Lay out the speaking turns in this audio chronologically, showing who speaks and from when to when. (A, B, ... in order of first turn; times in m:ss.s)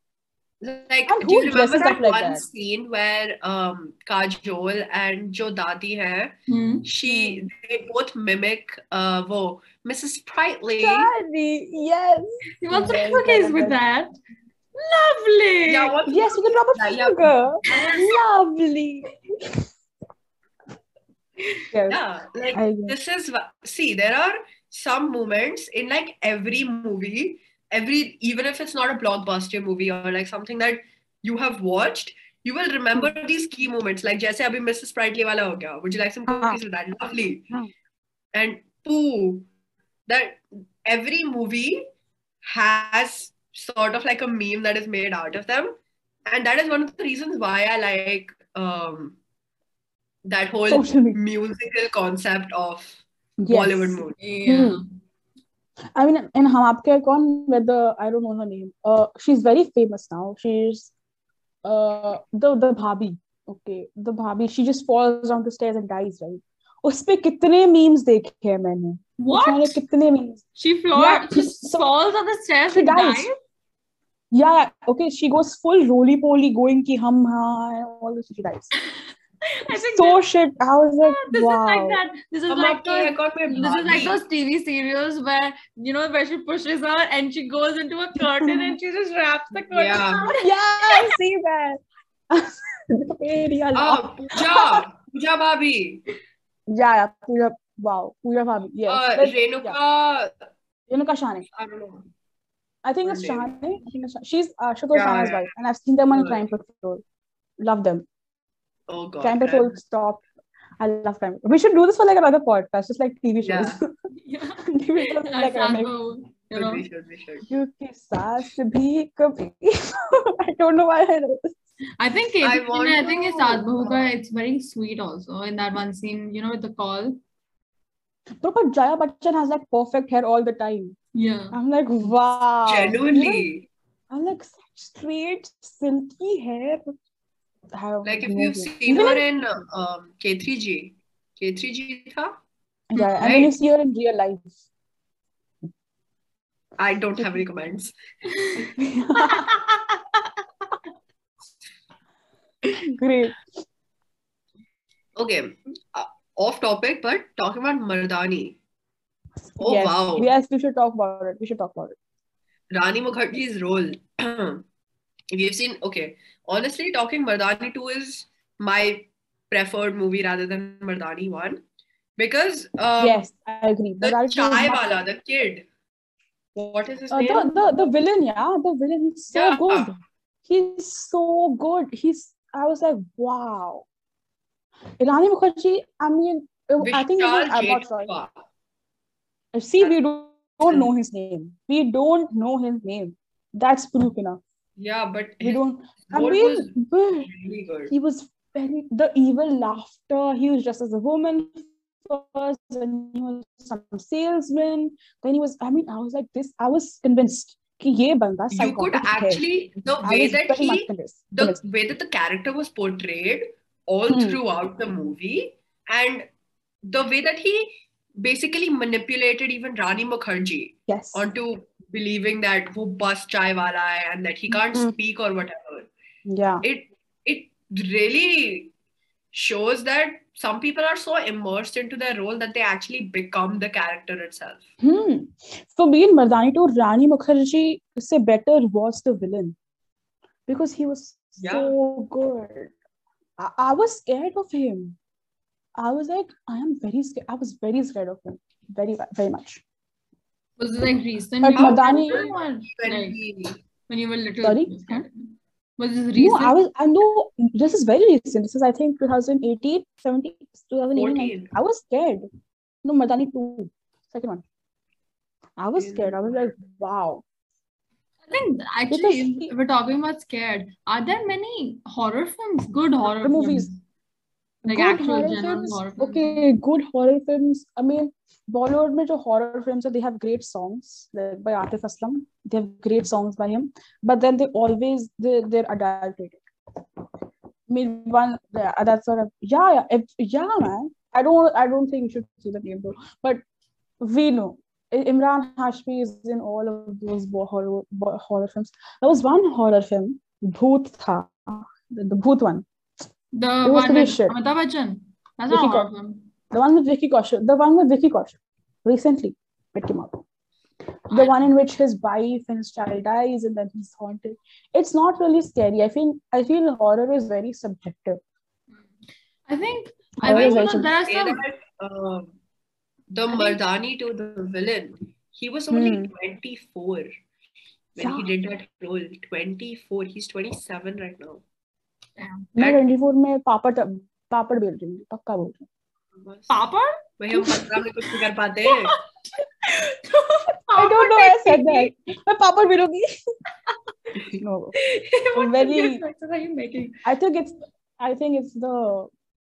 0:00.6-0:11.1 A
0:01.1-0:02.4 B
0:06.5-0:06.9 C
0:07.0-0:07.5 B
0:10.8-0:13.8 B
0:12.6-0:14.1 C
0:14.8-0:15.9 C
0:15.7-0:17.4 A
0:16.1-0:19.1 B
0:17.7-0:18.1 C
0:21.7-0:22.0 B
0:21.9-0:37.5 A
0:22.5-0:23.0 B
0:36.3-0:36.6 B
0:38.3-0:39.5 A
0:40.1-0:41.8 A
0:42.4-0:49.2 A
0:50.2-0:54.2 A
0:50.7-0:51.2 B
0:53.4-0:54.8 B
0:54.2-0:54.8 C
0:56.0-1:00.9 B
1:01.6-1:10.4 B
1:09.2-1:09.8 C
1:10.6-1:13.4 C
1:11.0-1:11.8 B
1:12.7-1:13.3 B
1:14.3-1:18.7 B
1:19.4-1:20.2 C
1:19.9-1:22.0 B
1:21.0-1:31.1 C
1:22.5-1:24.2 A
1:28.2-1:28.8 B
1:29.7-1:30.2 A
1:30.3-1:34.8 B
1:33.8-1:36.0 A
1:36.7-1:39.8 B
1:38.9-1:40.4 A
1:40.9-1:41.5 B
1:41.5-1:42.1 A
1:42.8-1:47.0 B
1:43.0-1:43.5 A
1:44.9-1:45.4 A
1:46.1-1:46.4 A
1:47.6-1:48.1 B
1:48.9-1:49.8 A
1:49.2-1:50.2 B
1:50.8-1:53.9 B
1:53.4-1:53.8 A
1:54.2-1:56.8 C
1:54.7-1:55.9 B
1:56.5-1:57.5 A
1:57.5-2:01.6 B
2:02.0-2:07.2 C
2:02.4-2:04.1 A
2:08.4-2:11.0 B
2:11.2-2:11.6 C
2:11.5-2:13.5 B
2:12.7-2:13.7 A
2:14.1-2:16.8 B
2:17.7-2:19.3 B
2:18.0-2:22.4 A
2:22.9-2:24.6 B
2:23.0-2:23.3 C
2:23.2-2:23.5 A
2:26.8-2:27.9 A
2:28.8-2:29.5 B
2:29.3-2:29.8 C
2:32.9-2:33.4 B
2:35.2-2:38.6 A
2:39.6-2:40.3 A
2:39.6-2:42.0 B
2:42.7-2:44.7 A
2:45.3-2:51.6 A
2:52.2-2:53.2 A
2:53.0-2:55.0 B
2:54.0-2:55.6 A
2:56.6-2:57.6 A
2:57.1-3:03.9 B
2:59.3-2:59.9 A
3:05.0-3:08.1 B
3:06.8-3:08.3 A
3:09.5-3:14.4 B
3:14.8-3:17.9 A
3:15.4-3:17.3 B
3:17.9-3:29.4 B
3:28.5-3:36.3 A
3:30.0-3:31.6 B
3:34.1-3:34.4 B
3:36.9-3:45.9 A
3:40.9-3:41.3 B
3:46.3-3:46.6 B
3:46.6-3:48.7 A
3:49.3-3:54.6 A
3:54.8-3:59.6 B
4:00.5-4:02.8 B
4:01.4-4:01.7 A
4:03.4-4:05.0 B
4:05.8-4:09.6 B
4:10.6-4:13.2 C
4:11.4-4:12.3 B
4:11.6-4:13.6 A
4:13.9-4:16.6 C
4:14.4-4:15.0 B
4:16.2-4:22.2 B
4:21.0-4:21.5 A
4:22.8-4:24.4 B
4:25.6-4:27.2 B
4:25.8-4:26.3 A
4:28.3-4:33.8 C
4:28.9-4:29.5 B
4:33.2-4:33.7 B
4:34.6-4:46.4 B
4:34.7-4:36.5 C
4:47.7-4:53.4 B
4:54.0-5:02.6 B
5:03.3-5:06.3 C
5:03.6-5:04.4 B
5:05.5-5:05.9 B
5:06.5-5:10.2 B
5:11.1-5:11.5 C
5:11.1-5:18.2 B
5:19.5-5:21.4 C
5:20.2-5:20.9 B
5:20.3-5:22.4 A
5:23.1-5:27.1 A
5:23.3-5:23.6 C
5:25.7-5:26.1 B
5:28.0-5:31.4 A
5:28.0-5:28.3 B
5:32.2-5:32.5 C
5:32.6-5:35.7 B
5:36.2-5:36.6 A
5:36.5-5:37.6 C
5:37.2-5:39.0 A
5:39.3-5:41.9 C
5:40.8-5:43.1 B
5:44.3-5:44.8 B
5:44.8-5:47.0 C
5:45.4-5:46.0 B
5:47.0-5:49.1 B